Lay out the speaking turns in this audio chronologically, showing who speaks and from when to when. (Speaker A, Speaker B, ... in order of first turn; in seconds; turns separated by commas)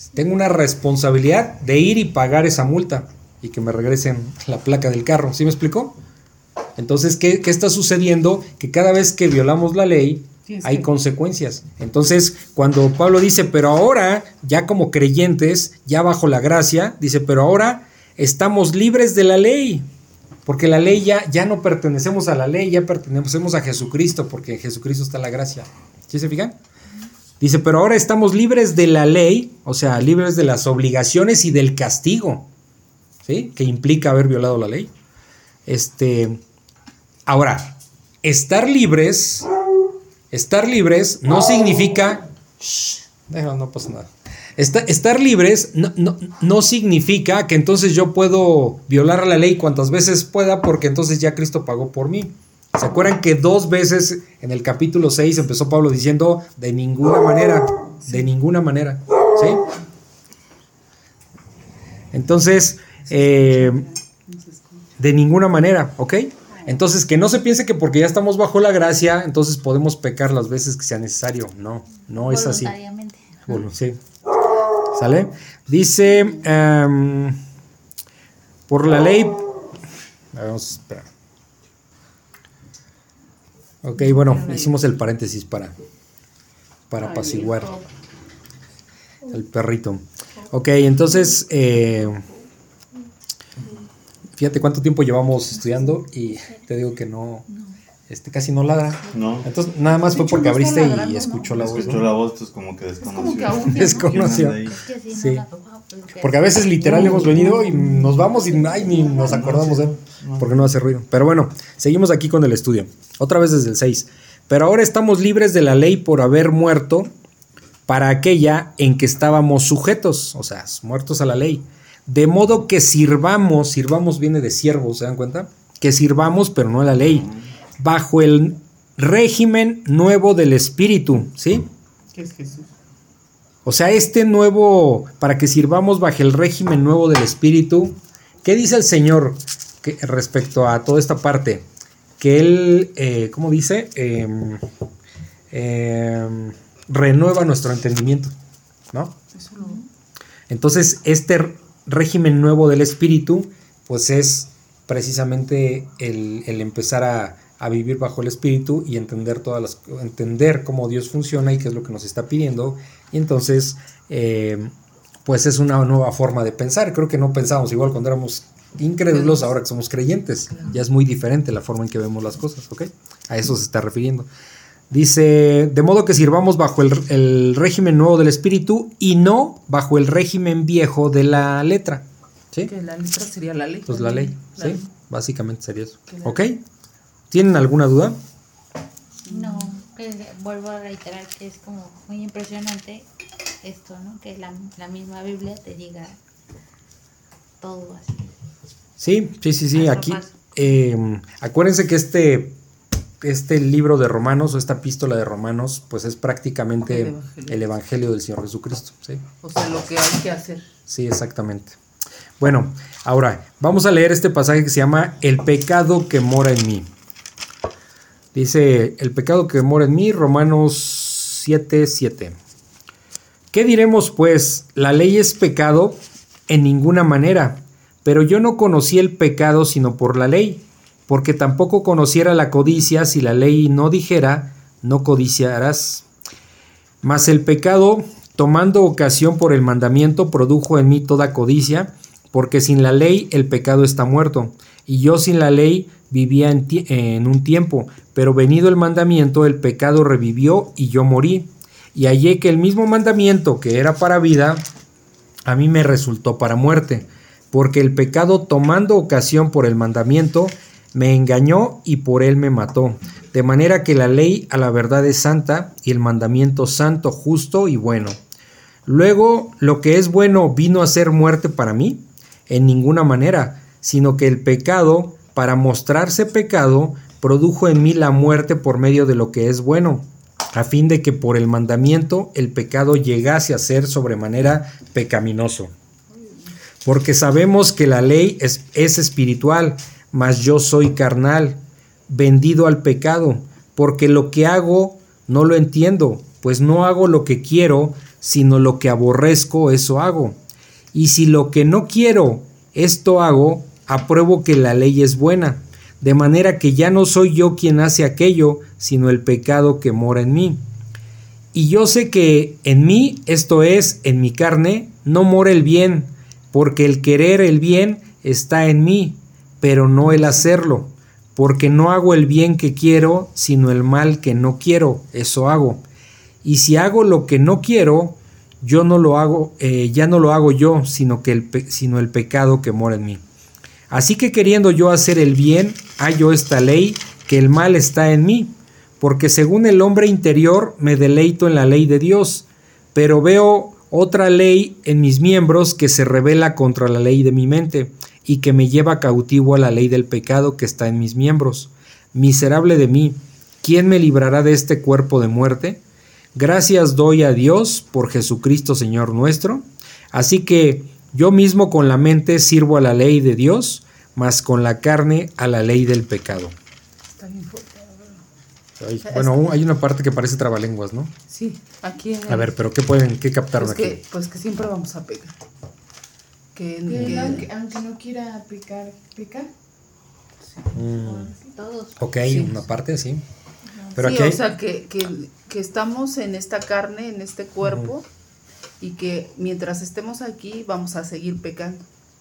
Speaker A: 0.1-6.0, Speaker A: 6.8-19.9, Speaker B: 10.4-10.9, Speaker A: 20.4-26.6, Speaker A: 27.4-32.5, Speaker A: 33.2-34.9, Speaker A: 35.6-36.4, Speaker A: 37.3-39.5, Speaker A: 40.3-59.7, Speaker A: 62.1-63.9, Speaker B: 63.0-64.9, Speaker A: 65.0-72.7, Speaker B: 66.5-66.8, Speaker C: 72.1-73.6, Speaker A: 73.5-74.0, Speaker A: 74.9-77.4, Speaker A: 78.7-79.4, Speaker A: 80.3-81.1, Speaker A: 83.8-85.7, Speaker B: 84.0-84.8, Speaker A: 86.9-87.7, Speaker B: 87.0-87.9, Speaker A: 89.3-92.2, Speaker A: 94.4-97.5, Speaker B: 97.5-97.8, Speaker A: 98.1-102.1, Speaker D: 99.1-99.5, Speaker B: 99.9-102.0, Speaker D: 101.5-104.8, Speaker B: 103.0-104.3, Speaker A: 103.7-105.4, Speaker C: 104.6-107.5, Speaker A: 106.2-117.1, Speaker B: 106.8-108.7, Speaker D: 106.9-107.3, Speaker C: 108.1-109.2, Speaker D: 108.8-110.7, Speaker A: 117.9-131.7, Speaker B: 132.1-132.7, Speaker A: 133.6-141.7, Speaker A: 142.2-144.6, Speaker A: 145.5-148.3, Speaker B: 149.3-149.8, Speaker A: 150.5-164.7, Speaker A: 165.2-174.3, Speaker B: 169.1-169.5, Speaker B: 170.5-170.8, Speaker A: 174.9-182.7, Speaker B: 182.7-184.8, Speaker A: 183.9-186.6, Speaker B: 186.1-186.3, Speaker A: 187.3-188.2, Speaker C: 189.2-193.1, Speaker B: 189.3-189.7, Speaker C: 193.6-196.2, Speaker C: 197.6-198.3, Speaker A: 199.0-202.6, Speaker C: 199.7-200.5, Speaker A: 203.2-209.2, Speaker B: 206.8-207.6, Speaker B: 209.4-210.7, Speaker A: 210.9-211.8, Speaker A: 212.4-216.9, Speaker A: 218.3-222.4, Speaker A: 223.5-236.0, Speaker A: 237.0-254.6, Speaker A: 255.5-268.2, Speaker A: 268.9-285.7, Speaker B: 286.1-286.6, Speaker A: 286.8-300.4, Speaker A: 300.9-310.6, Speaker A: 311.5-325.8, Speaker B: 320.0-320.5, Speaker A: 326.4-333.2, Speaker A: 333.9-355.8, Speaker A: 356.3-366.5, Speaker B: 367.2-368.2, Speaker A: 368.8-371.1, Speaker B: 369.0-369.5, Speaker B: 371.3-372.5, Speaker A: 372.3-374.0, Speaker B: 373.6-375.4, Speaker B: 376.5-377.5, Speaker E: 376.9-379.5, Speaker A: 376.9-377.4, Speaker A: 380.7-381.3, Speaker E: 381.0-381.5, Speaker C: 381.5-382.0, Speaker A: 382.0-383.2, Speaker B: 382.2-382.6, Speaker A: 383.9-384.4, Speaker B: 383.9-388.0, Speaker A: 387.6-387.9, Speaker B: 388.8-391.9